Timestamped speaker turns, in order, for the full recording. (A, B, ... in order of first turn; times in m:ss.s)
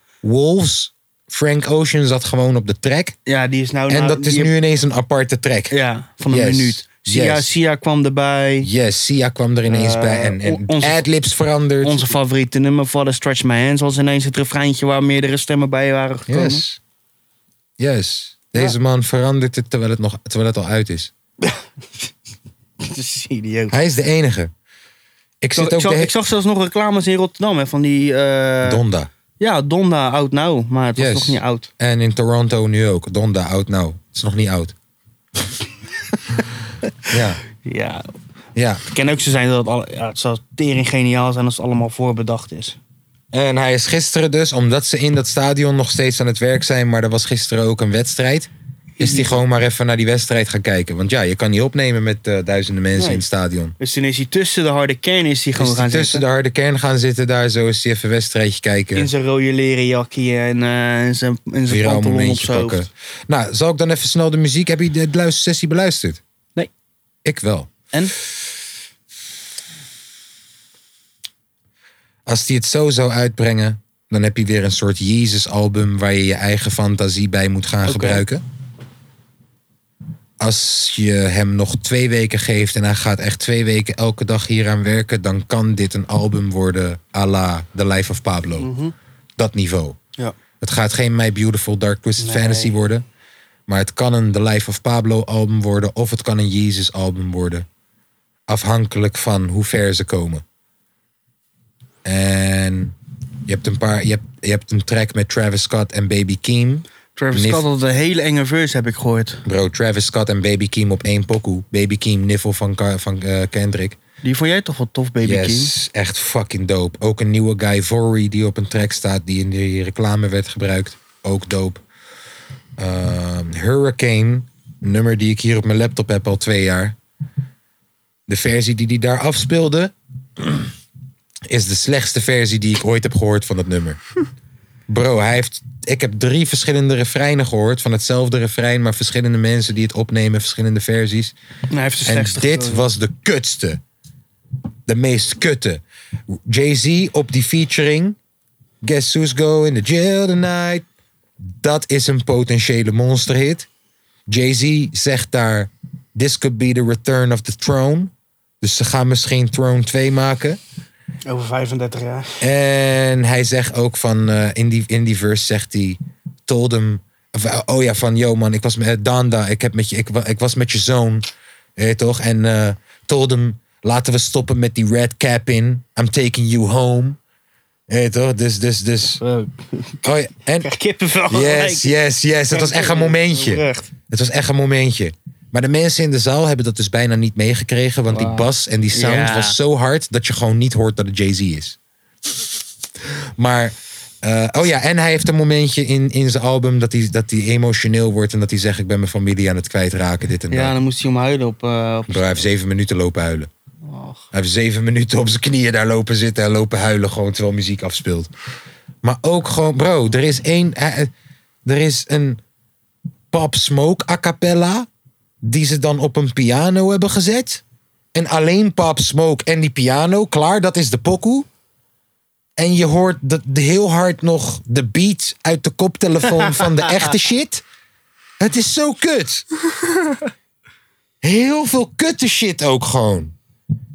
0:00.2-0:03.2 A
0:03.3-0:04.5 B
0:03.9-0:05.8 A
0:05.7-0:08.7 B
0:06.3-0:07.5 A
0:08.6-0:12.1 A
0:09.7-0:11.0 B
0:11.8-0:16.6 B
0:16.3-0:16.8 A
0:17.8-0:21.1 A
0:22.8-0:23.8 B
0:23.7-0:24.5 A
0:25.4-0:26.1 A
0:25.6-0:28.8 B
0:28.6-0:29.1 A
0:29.4-0:31.7 B
0:31.0-0:34.8 A
0:37.1-0:37.4 A
0:37.6-0:38.0 B
0:38.6-0:38.8 A
0:38.9-0:42.8 B
0:43.3-0:53.8 A
0:49.0-0:49.4 B
0:52.9-0:53.2 B
0:53.8-0:56.2 B
0:55.6-0:59.1 A
0:59.0-1:02.8 B
1:01.7-1:06.2 A
1:07.2-1:07.7 A
1:12.3-1:18.4 A
1:17.8-1:18.2 B
1:20.4-1:28.7 A
1:28.6-1:28.9 B
1:29.4-1:30.0 A
1:30.6-1:33.0 A
1:32.2-1:32.8 B
1:33.7-1:37.7 A
1:38.5-1:40.4 A
1:42.0-1:43.0 A
1:43.5-1:47.7 A
1:47.2-1:49.4 B
1:49.4-1:54.0 A
1:54.2-1:55.7 B
1:55.2-2:01.8 A
2:02.8-2:07.0 A
2:08.3-2:10.7 A
2:11.5-2:14.0 A
2:14.9-2:21.4 A
2:21.7-2:22.9 B
2:22.0-2:23.8 A
2:24.9-2:28.2 A
2:28.8-2:30.8 A
2:31.5-2:33.7 A
2:34.3-2:40.6 A
2:41.3-2:42.4 B
2:42.4-2:51.3 A
2:51.8-2:57.2 A
2:57.9-2:59.2 A
2:59.2-3:00.1 B
3:00.0-3:00.7 A
3:00.6-3:01.9 B
3:01.3-3:11.8 A
3:02.5-3:03.9 B
3:08.1-3:09.6 B
3:13.4-3:20.7 A
3:20.5-3:22.5 B
3:22.1-3:23.5 A
3:23.8-3:24.2 B
3:24.3-3:28.3 A
3:29.0-3:31.1 A
3:31.6-3:32.4 A
3:33.3-3:34.9 A
3:35.4-3:37.6 A
3:38.1-3:41.5 A
3:42.6-3:47.6 A
3:48.4-3:49.4 A
3:51.2-3:53.3 A